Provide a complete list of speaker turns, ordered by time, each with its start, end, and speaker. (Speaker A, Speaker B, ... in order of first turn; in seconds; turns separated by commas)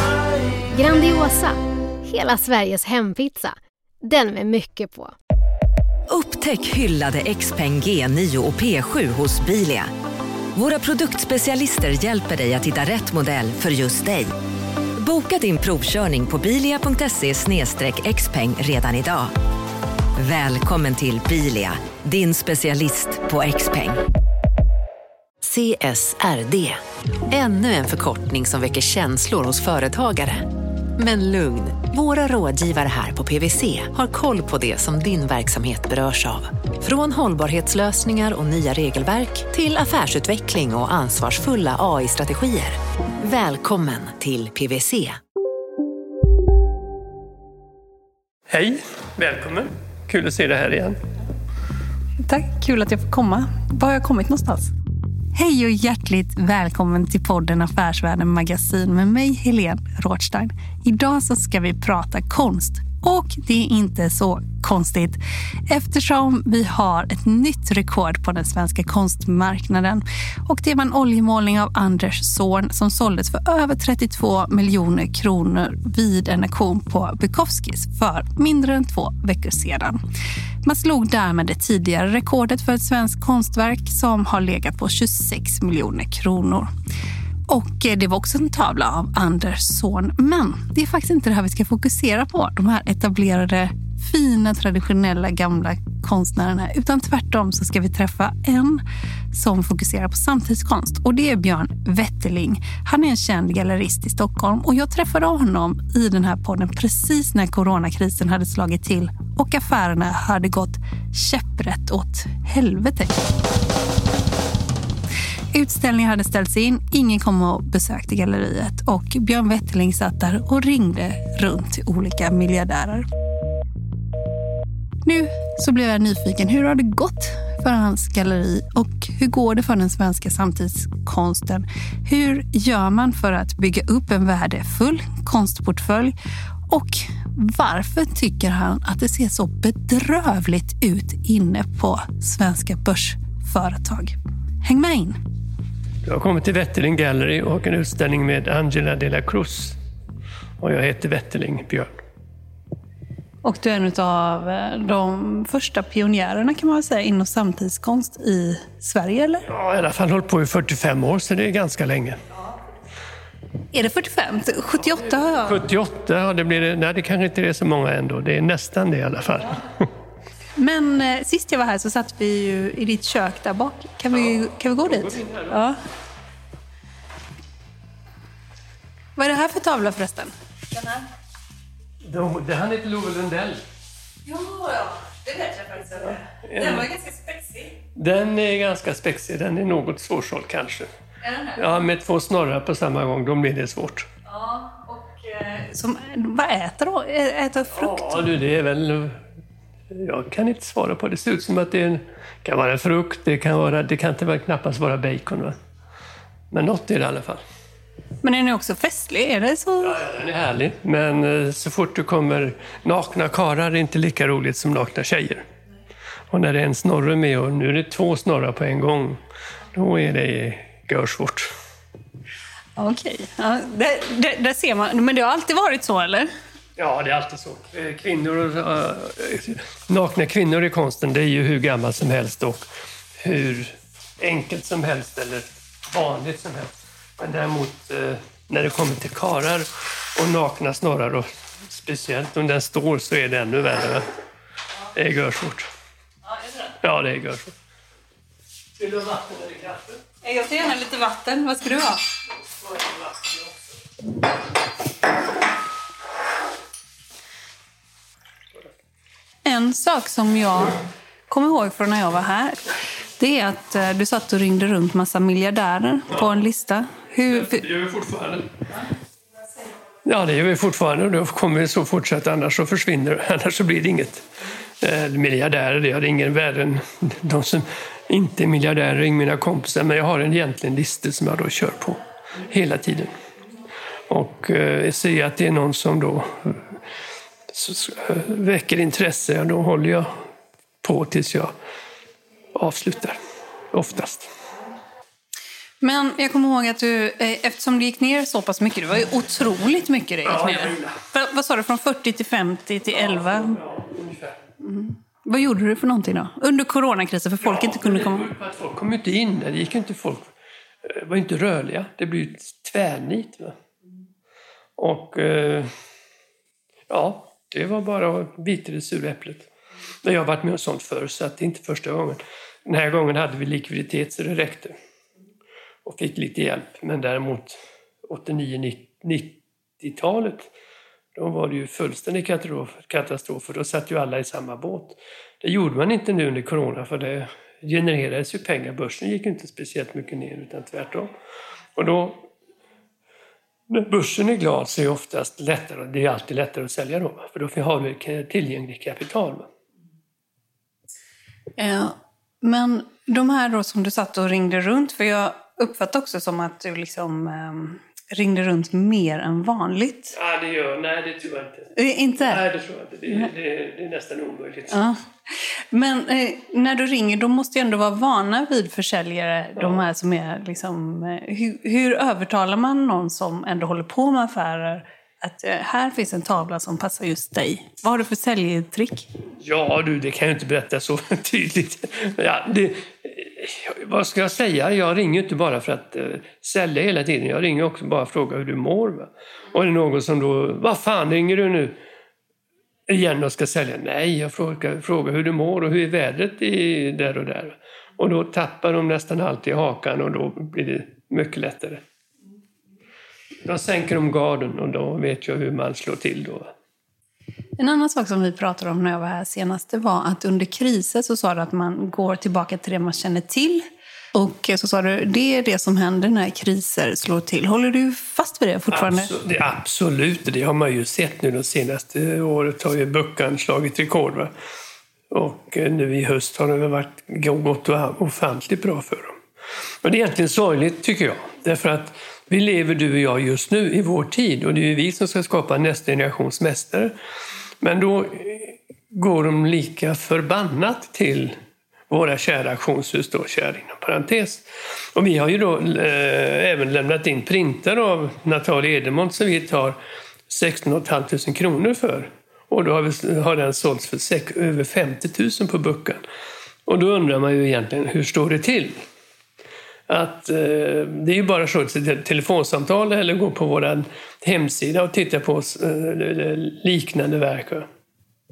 Speaker A: 0.7-5.1, Speaker B: 6.1-9.9, Speaker B: 10.5-14.3, Speaker B: 15.0-19.3, Speaker B: 20.2-24.0, Speaker C: 25.4-45.2, Speaker D: 48.5-51.0, Speaker E: 52.2-54.7, Speaker E: 55.3-80.0, Speaker E: 80.6-86.7, Speaker E: 87.5-113.2, Speaker E: 115.5-123.0, Speaker E: 125.0-136.1, Speaker E: 136.7-145.2, Speaker D: 146.0-149.8, Speaker D: 150.6-152.0, Speaker E: 153.4-159.4, Speaker D: 159.5-162.2, Speaker E: 163.7-165.6, Speaker D: 165.4-169.9, Speaker E: 170.6-175.8, Speaker D: 174.2-175.6, Speaker E: 179.2-181.0, Speaker D: 182.0-183.6, Speaker E: 184.2-187.7, Speaker D: 186.3-186.9, Speaker D: 187.9-190.9, Speaker E: 191.2-191.6, Speaker D: 191.6-194.1, Speaker E: 194.3-198.3, Speaker D: 197.7-199.2, Speaker D: 199.9-205.6, Speaker D: 206.5-207.4, Speaker E: 208.2-210.0, Speaker D: 209.8-215.4, Speaker D: 216.3-219.2, Speaker D: 219.7-221.5, Speaker E: 222.8-226.3, Speaker D: 226.8-232.6, Speaker D: 233.2-244.1, Speaker D: 244.9-245.7, Speaker D: 246.8-247.5, Speaker D: 248.8-250.0, Speaker E: 250.2-252.0, Speaker E: 259.4-260.8, Speaker E: 261.3-262.6, Speaker E: 263.2-267.6, Speaker D: 267.3-268.5, Speaker D: 270.0-274.2, Speaker D: 274.8-283.1, Speaker D: 284.1-286.6, Speaker D: 287.5-290.1, Speaker D: 290.8-291.5, Speaker D: 292.5-293.2, Speaker D: 293.7-294.3, Speaker E: 295.8-303.6, Speaker D: 300.2-301.0, Speaker D: 302.9-304.4, Speaker E: 304.6-308.3, Speaker D: 307.4-310.3, Speaker D: 310.8-313.6, Speaker D: 314.8-315.7, Speaker D: 316.9-319.5, Speaker D: 320.0-324.8, Speaker D: 325.8-330.5, Speaker D: 331.1-341.1, Speaker D: 341.8-342.3, Speaker D: 343.7-349.5, Speaker E: 351.6-360.1, Speaker D: 360.1-364.8, Speaker E: 361.8-362.4, Speaker E: 364.7-365.0, Speaker E: 365.7-379.1, Speaker D: 379.4-391.8, Speaker D: 392.9-401.8, Speaker D: 403.4-406.5, Speaker E: 407.6-419.1, Speaker D: 418.7-424.3, Speaker D: 425.1-429.1, Speaker D: 429.8-436.9, Speaker D: 437.6-441.4, Speaker D: 441.9-449.8, Speaker D: 450.3-456.0, Speaker D: 456.6-458.8, Speaker D: 459.9-467.7